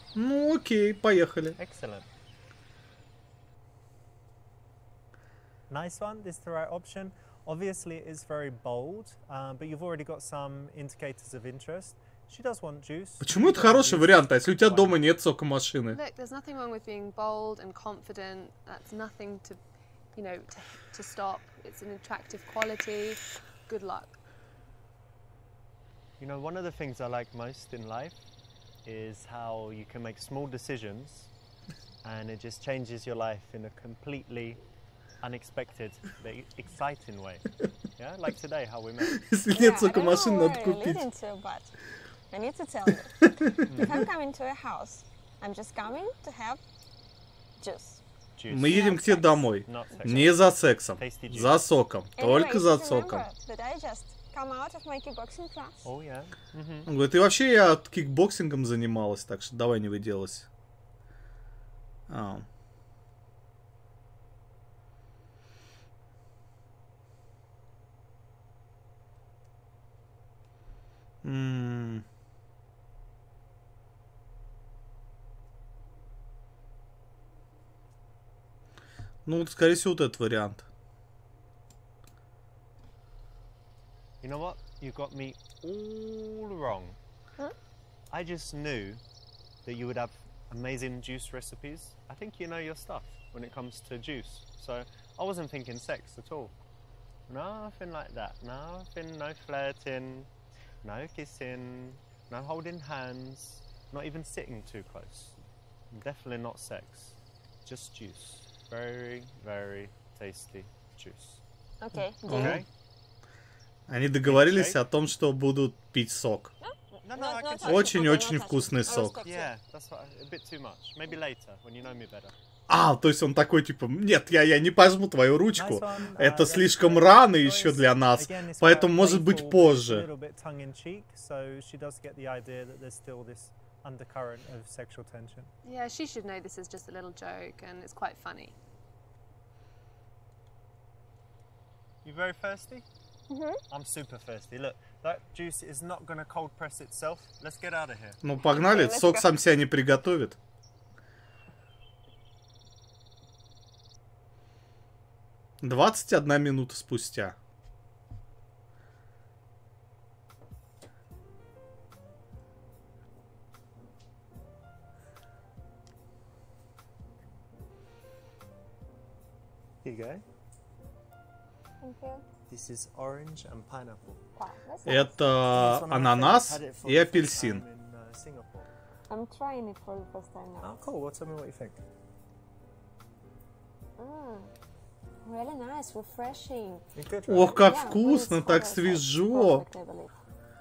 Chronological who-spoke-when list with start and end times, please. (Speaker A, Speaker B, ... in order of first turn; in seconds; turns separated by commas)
Speaker A: 0.1-1.6, Speaker B: 1.6-2.1, Speaker B: 5.7-15.0, Speaker A: 13.2-16.0, Speaker C: 15.9-19.6, Speaker C: 20.1-24.2, Speaker B: 26.2-28.2, Speaker B: 28.8-31.3, Speaker B: 32.0-34.6, Speaker B: 35.2-39.2, Speaker A: 39.2-41.0, Speaker D: 39.5-41.8, Speaker D: 42.3-46.6, Speaker A: 43.4-43.6, Speaker B: 43.6-44.0, Speaker D: 47.6-48.0, Speaker B: 48.4-49.0, Speaker A: 48.5-53.3, Speaker D: 48.6-49.6, Speaker B: 49.6-51.6, Speaker D: 52.2-55.9, Speaker B: 55.8-56.9, Speaker A: 56.9-60.5, Speaker A: 62.1-62.5, Speaker A: 71.2-72.0, Speaker A: 79.2-80.7, Speaker B: 84.2-87.0, Speaker B: 88.1-89.0, Speaker B: 89.6-96.5, Speaker B: 97.3-100.3, Speaker B: 100.8-105.4, Speaker B: 105.9-111.4, Speaker D: 111.8-112.6, Speaker B: 112.2-112.7, Speaker A: 112.2-112.6, Speaker A: 113.9-116.5, Speaker B: 114.2-114.8, Speaker D: 116.6-119.5, Speaker B: 117.0-118.3, Speaker A: 117.6-119.2, Speaker B: 119.2-122.3, Speaker A: 122.7-130.1, Speaker B: 125.5-135.5, Speaker C: 135.6-138.5, Speaker B: 142.0-142.8, Speaker D: 143.3-143.6, Speaker B: 143.7-148.2, Speaker A: 148.2-150.4, Speaker D: 148.3-149.4, Speaker A: 155.6-157.3, Speaker B: 169.8-170.2, Speaker D: 171.8-172.2, Speaker B: 172.5-174.2, Speaker D: 174.3-175.2, Speaker A: 174.8-177.6, Speaker B: 175.5-178.8, Speaker D: 179.1-180.7, Speaker B: 180.6-181.8, Speaker D: 184.0-184.5, Speaker D: 185.2-186.9, Speaker B: 186.9-187.7, Speaker A: 187.3-189.7, Speaker D: 187.5-190.1